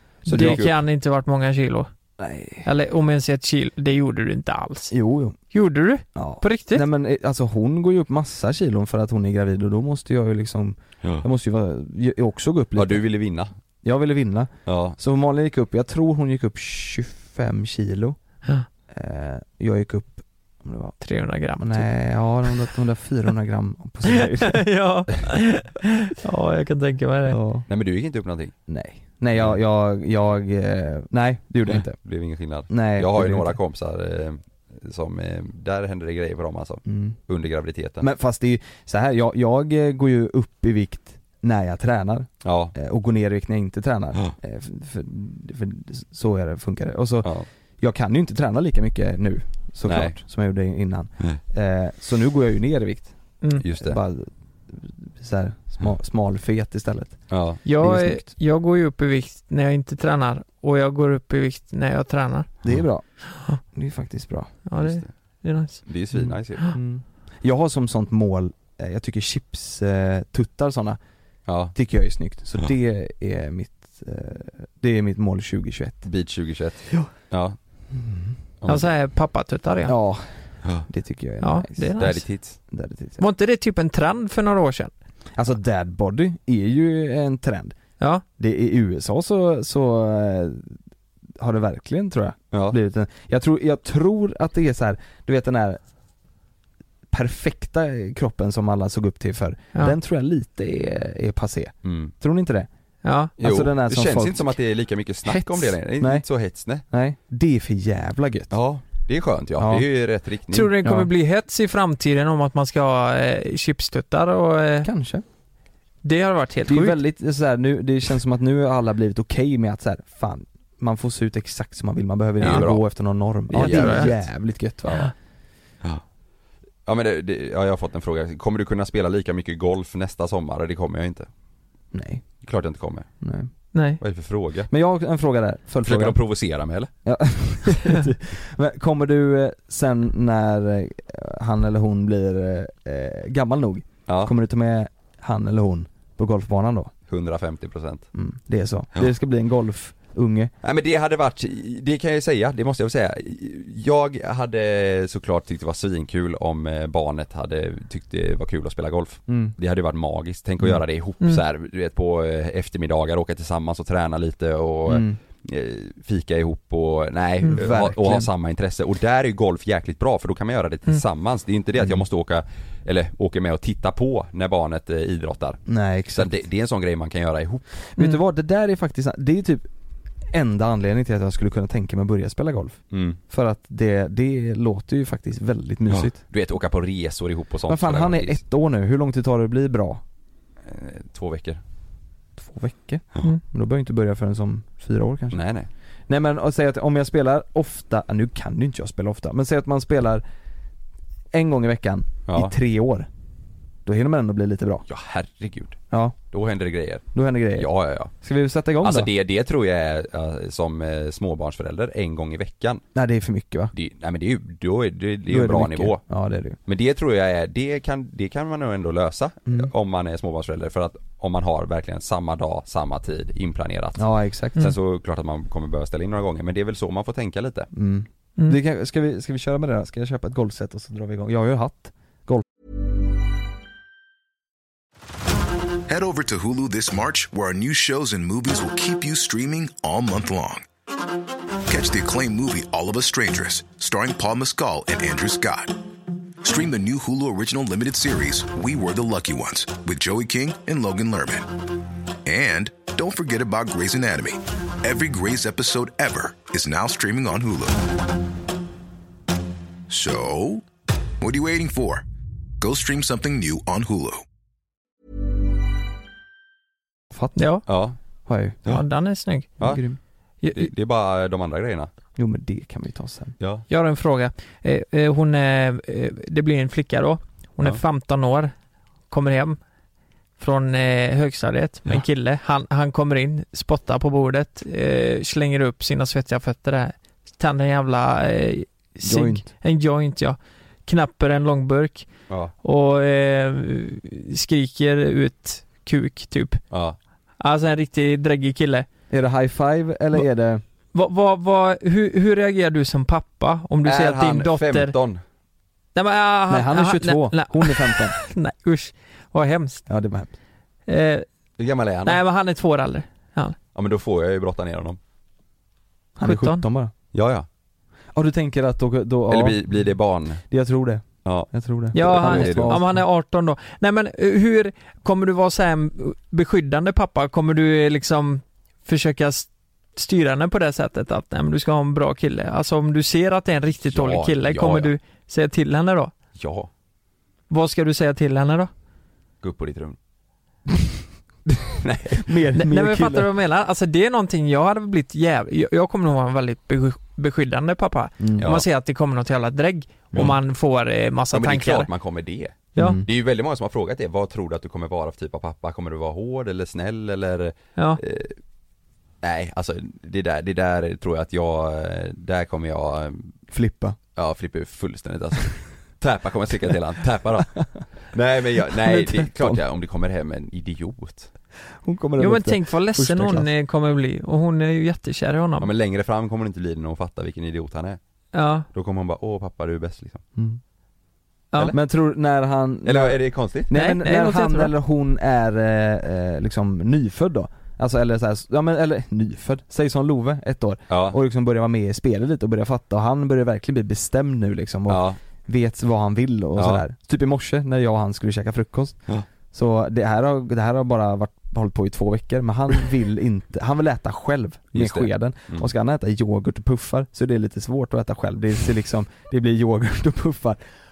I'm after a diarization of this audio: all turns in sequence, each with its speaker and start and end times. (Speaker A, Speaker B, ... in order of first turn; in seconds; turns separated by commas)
Speaker A: 0.2-0.8, Speaker B: 0.2-0.6, Speaker C: 0.3-1.9, Speaker B: 2.2-2.7, Speaker C: 2.6-5.0, Speaker B: 4.9-5.4, Speaker C: 5.5-6.8, Speaker B: 6.2-13.1, Speaker A: 12.8-13.5, Speaker B: 13.8-18.2, Speaker A: 14.7-15.0, Speaker B: 18.9-21.0, Speaker C: 21.0-21.9, Speaker B: 21.6-24.7, Speaker C: 24.2-27.4, Speaker B: 27.3-27.7, Speaker A: 27.7-28.5, Speaker B: 28.7-32.0, Speaker A: 31.7-38.1, Speaker B: 32.7-33.6, Speaker B: 36.9-37.2, Speaker B: 38.0-53.1, Speaker A: 42.4-42.7, Speaker A: 49.9-50.2, Speaker A: 53.6-54.0, Speaker B: 53.7-58.3, Speaker A: 57.3-57.6, Speaker C: 57.6-62.5, Speaker B: 62.6-64.5, Speaker C: 64.7-65.8, Speaker A: 64.8-65.1, Speaker A: 65.8-66.7, Speaker B: 66.1-71.0, Speaker A: 71.5-71.8, Speaker B: 71.7-76.1, Speaker A: 76.0-77.6, Speaker B: 77.9-78.4, Speaker A: 78.6-78.9, Speaker C: 78.7-80.0, Speaker B: 79.9-80.3, Speaker B: 80.9-81.9, Speaker C: 81.4-82.2, Speaker A: 82.0-82.6, Speaker B: 82.7-83.2, Speaker C: 83.2-84.9, Speaker B: 85.4-87.8, Speaker B: 88.4-90.8, Speaker B: 91.4-95.8, Speaker A: 92.5-92.8, Speaker B: 97.1-102.7, Speaker A: 101.8-102.1, Speaker C: 103.0-103.3, Speaker B: 103.4-104.5, Speaker A: 103.4-106.8, Speaker B: 105.2-106.3, Speaker B: 106.9-108.6, Speaker A: 108.5-110.7, Speaker B: 109.6-109.9, Speaker C: 110.5-114.9, Speaker B: 110.8-111.1, Speaker B: 114.8-115.2, Speaker C: 116.0-117.0, Speaker B: 116.7-125.1, Speaker C: 122.4-122.7, Speaker A: 122.4-122.8, Speaker C: 123.5-124.1, Speaker A: 123.5-124.3, Speaker A: 126.9-131.3, Speaker B: 131.9-132.3, Speaker A: 132.4-133.1, Speaker B: 133.2-133.5, Speaker C: 133.7-134.0, Speaker A: 134.0-134.7, Speaker B: 134.7-136.2, Speaker A: 135.8-136.9, Speaker B: 137.1-146.9, Speaker A: 144.1-144.3, Speaker A: 147.1-148.1, Speaker B: 148.2-150.5, Speaker A: 150.6-177.9, Speaker B: 159.3-159.6, Speaker B: 164.9-165.2, Speaker B: 167.5-168.3, Speaker B: 171.8-172.0, Speaker B: 175.7-176.3, Speaker B: 177.9-179.7, Speaker B: 180.3-186.2, Speaker A: 182.9-183.2, Speaker A: 185.9-188.4, Speaker B: 187.7-190.0, Speaker A: 190.7-191.6, Speaker B: 192.4-195.4, Speaker A: 195.3-195.7, Speaker B: 196.1-200.2, Speaker B: 201.3-203.1, Speaker A: 202.3-202.6, Speaker B: 203.8-204.8, Speaker A: 204.9-205.8, Speaker B: 205.9-206.2, Speaker A: 206.3-208.1, Speaker B: 207.1-209.1, Speaker A: 208.8-212.8, Speaker B: 212.9-213.7, Speaker A: 213.7-216.0, Speaker B: 215.3-216.6, Speaker A: 216.7-227.7, Speaker B: 224.0-224.7, Speaker B: 227.7-232.4, Speaker D: 235.9-240.7, Speaker D: 241.7-245.8, Speaker D: 246.4-251.5, Speaker D: 252.2-257.8, Speaker D: 259.9-260.7, Speaker D: 261.2-262.1, Speaker D: 262.6-264.2, Speaker B: 267.1-267.4, Speaker C: 267.4-267.6, Speaker A: 267.7-268.0, Speaker B: 268.3-268.6, Speaker C: 268.7-269.7, Speaker B: 269.6-270.0, Speaker C: 270.4-270.7, Speaker A: 270.5-271.9, Speaker B: 272.2-273.4, Speaker A: 273.4-273.7, Speaker C: 273.7-278.5, Speaker C: 279.1-279.6, Speaker C: 280.4-292.1, Speaker B: 289.0-289.4, Speaker C: 292.6-296.6, Speaker A: 296.7-297.0, Speaker C: 297.4-298.9, Speaker B: 299.1-300.6, Speaker C: 300.9-304.9, Speaker A: 303.8-305.2, Speaker C: 305.9-309.9, Speaker B: 306.5-308.2, Speaker B: 309.9-310.3, Speaker C: 310.9-311.3, Speaker A: 311.6-312.2, Speaker C: 312.1-313.6, Speaker A: 313.8-315.0, Speaker B: 316.2-316.9, Speaker C: 316.2-316.6, Speaker A: 317.1-317.5, Speaker B: 318.1-319.8, Speaker A: 319.3-320.4, Speaker B: 320.5-323.0, Speaker A: 321.2-322.8, Speaker C: 321.9-336.1, Speaker A: 333.9-334.9, Speaker A: 336.4-336.7, Speaker C: 337.5-338.7, Speaker A: 339.4-340.0, Speaker A: 341.8-342.3, Speaker B: 342.1-343.3, Speaker C: 342.6-351.9, Speaker B: 348.2-348.5, Speaker A: 348.4-348.7, Speaker A: 351.3-358.4, Speaker B: 352.8-353.1, Speaker A: 359.2-363.4, Speaker B: 363.5-364.0, Speaker A: 364.2-371.3, Speaker B: 368.9-369.6, Speaker B: 371.8-373.5, Speaker C: 372.2-375.7, Speaker A: 375.6-378.0, Speaker C: 378.3-378.7, Speaker A: 378.7-380.2, Speaker B: 380.4-380.6, Speaker B: 381.7-399.0, Speaker A: 382.9-383.7, Speaker C: 383.7-384.7, Speaker A: 390.9-391.2, Speaker A: 394.9-395.2, Speaker A: 396.6-396.8, Speaker B: 399.5-410.6, Speaker A: 404.7-405.7